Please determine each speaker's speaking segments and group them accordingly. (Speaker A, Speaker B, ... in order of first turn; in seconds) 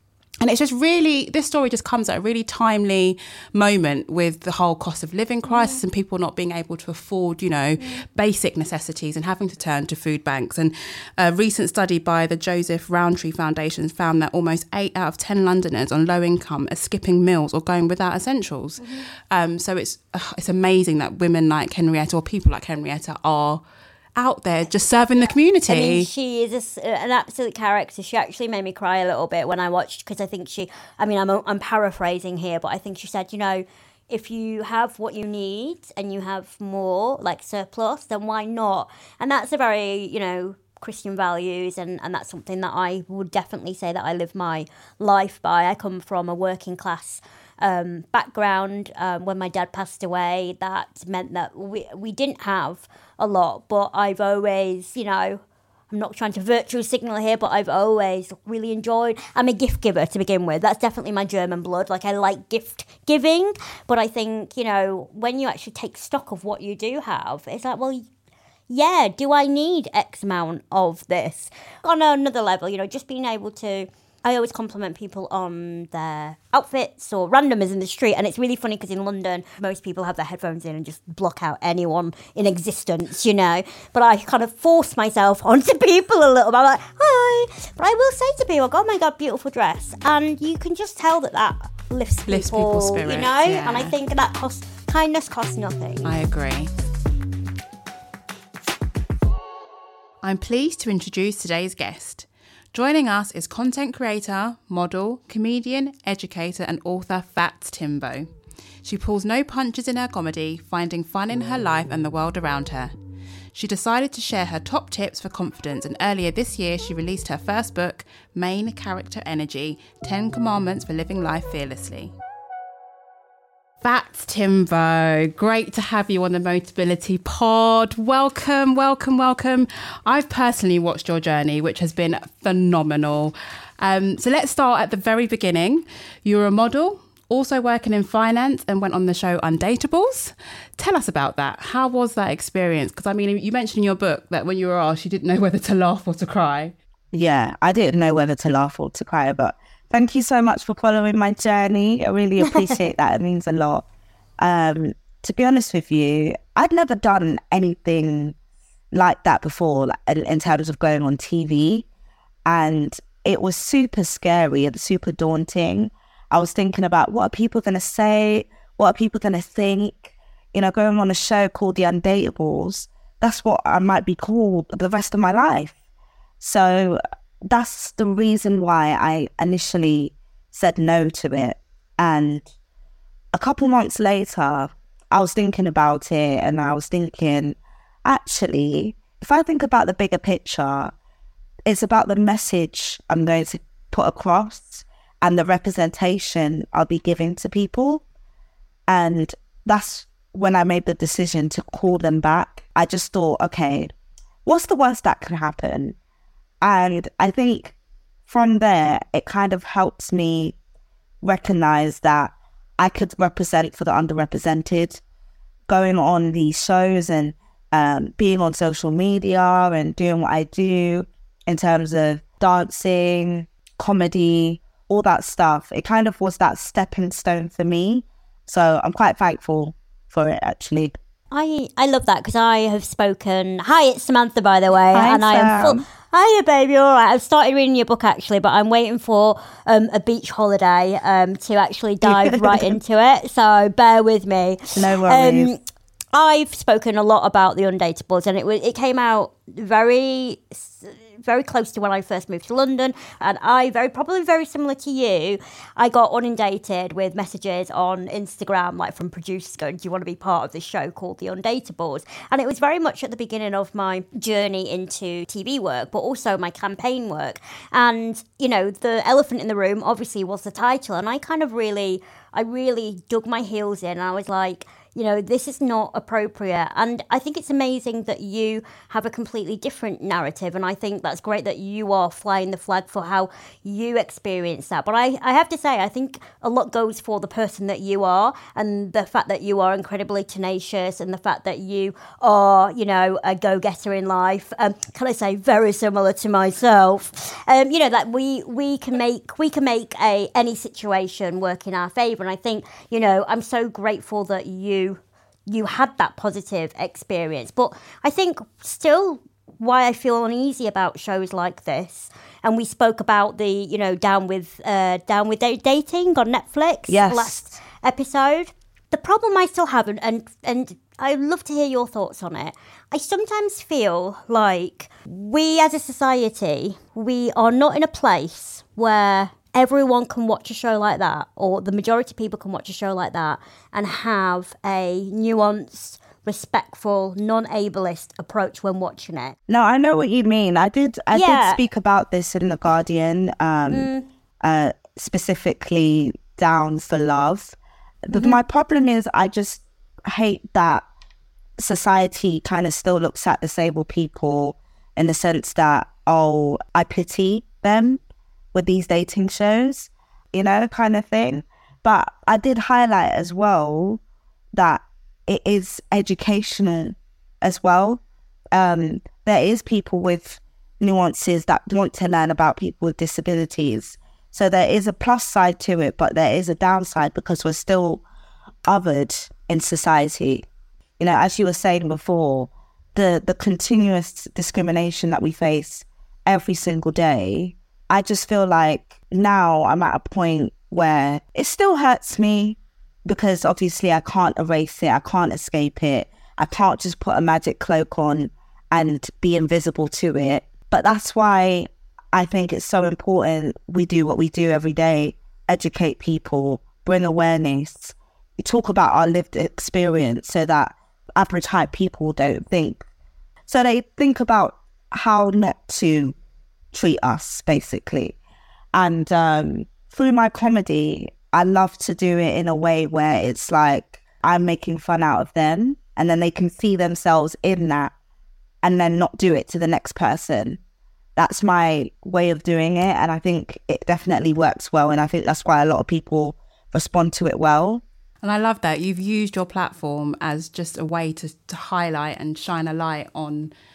Speaker A: 0.4-23.6, 24.2-26.1, 92.3-94.0, 96.0-96.7, 100.2-108.3, 108.8-112.9, 113.5-122.1, 123.8-146.8, 438.2-443.5
Speaker B: 5.5-5.8, 25.7-68.1, 68.7-96.2, 152.4-152.8, 231.3-245.6, 246.1-339.4, 341.1-341.6, 343.7-344.1, 348.1-348.4
Speaker C: 147.1-153.8, 154.4-158.4, 158.9-161.9, 162.5-175.7, 176.4-182.5, 183.3-190.9, 191.7-198.0, 198.9-203.9, 204.4-206.0, 206.6-207.8, 208.3-210.6, 211.2-215.0, 215.7-230.9, 234.9-235.9, 242.0-242.8, 244.8-245.5, 316.9-317.4, 339.5-343.9, 344.4-350.9, 351.6-358.0, 358.5-364.0, 364.5-368.0, 368.5-378.0, 378.7-380.4, 381.0-412.8, 413.5-416.1, 416.7-418.2, 418.7-427.9, 428.6-430.6, 431.2-437.8